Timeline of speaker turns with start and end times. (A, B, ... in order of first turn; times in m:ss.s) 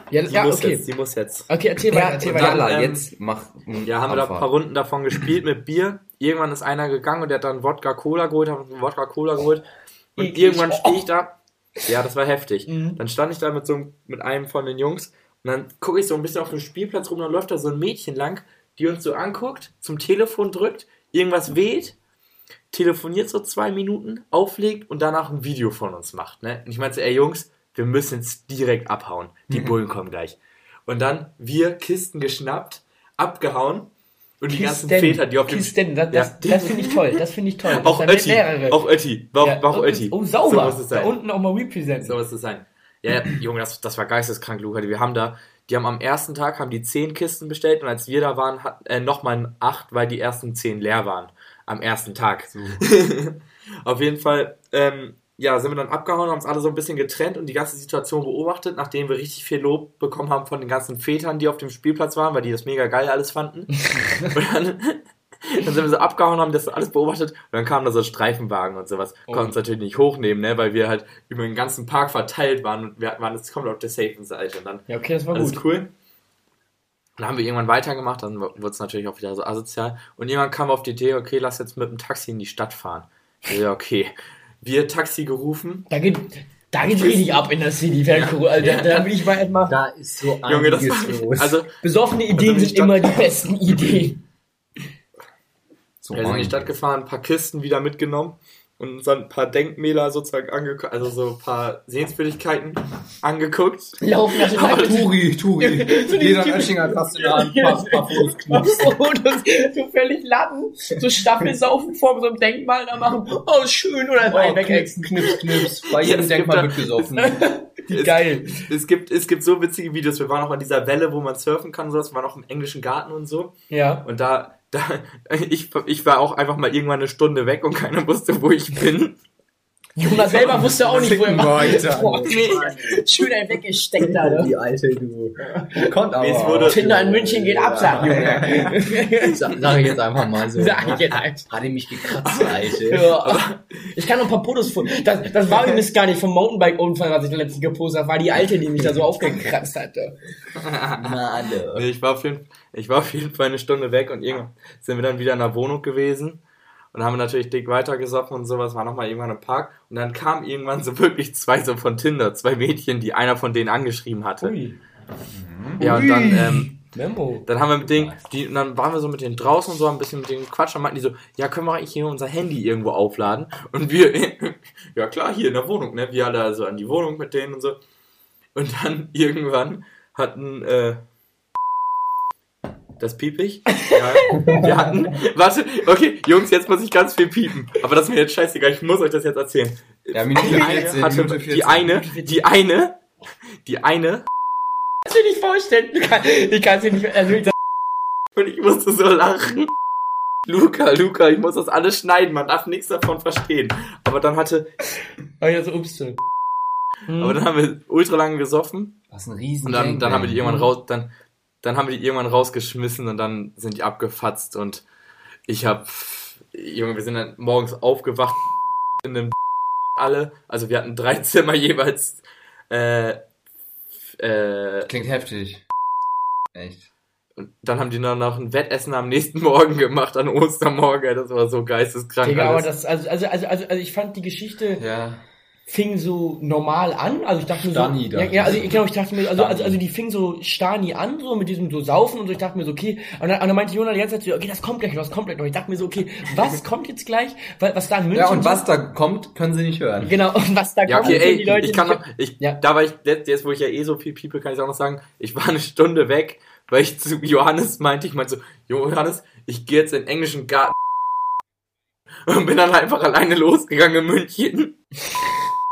0:00.1-0:00.8 A
0:00.2-0:03.1 B
0:01.5-0:02.7 A
0:02.2-0:04.5 C
0:03.9-0:09.6 B
0:10.2-0:22.0 B
0:10.2-0:11.1 A
0:12.7-0:13.0 A
0:22.7-0:41.2 B
0:34.5-0:38.8 A
0:39.4-0:42.1 A
0:42.0-1:15.9 B
0:52.5-0:52.8 C
1:09.3-1:09.5 A
1:14.9-1:15.6 A
1:17.2-1:25.9 B
1:25.9-1:29.8 A
1:28.1-1:29.1 B
1:29.7-1:31.6 C
1:30.4-1:31.7 B
1:31.8-1:34.2 A
1:32.3-1:33.5 B
1:36.0-1:36.7 C
1:36.1-1:45.0 B
1:44.0-1:55.4 A
1:44.7-1:49.0 C
1:54.2-1:57.4 C
1:55.8-1:57.2 B
1:57.2-1:58.6 A
1:57.9-2:03.5 B
2:03.7-2:04.0 A
2:04.0-2:09.2 B
2:10.0-2:14.5 A
2:10.1-2:10.7 B
2:10.5-2:13.1 C
2:12.2-2:12.7 B
2:14.0-2:23.2 C
2:16.2-2:16.8 B
2:16.6-2:19.6 A
2:20.6-2:21.5 A
2:22.2-2:30.2 A
2:22.4-2:23.6 B
2:28.7-2:29.1 C
2:30.6-2:31.1 B
2:31.0-2:31.9 C
2:31.7-2:36.4 B
2:36.9-2:44.5 B
2:44.4-2:44.8 A
2:45.3-2:46.0 C
2:45.8-2:46.8 B
2:45.8-2:47.5 A
2:47.5-2:57.8 B
2:47.8-2:48.2 C
2:58.6-3:01.0 B
3:03.0-3:13.0 B
3:03.8-3:04.5 A
3:04.4-3:04.8 C
3:10.1-3:12.1 C
3:10.4-3:11.0 A
3:13.6-3:14.2 B
3:15.1-3:17.5 A
3:18.4-3:19.7 B
3:20.5-3:24.7 B
3:25.4-3:26.2 A
3:27.1-3:27.4 A
3:27.2-3:29.0 B
3:29.1-3:30.7 C
3:29.7-3:31.1 B
3:30.4-3:30.7 A
3:31.6-3:34.8 B
3:35.5-3:38.4 B
3:39.0-3:39.3 B
3:40.0-3:43.2 B
3:44.2-3:44.9 B
3:44.9-3:45.6 C
3:46.5-3:46.9 C
3:47.4-3:52.7 B
3:52.2-3:54.8 A
3:54.8-3:55.2 C
3:55.7-4:08.6 A
3:57.5-3:59.8 C
4:08.1-4:10.2 C
4:10.0-4:12.6 A
4:10.9-4:20.7 B
4:22.3-4:24.7 B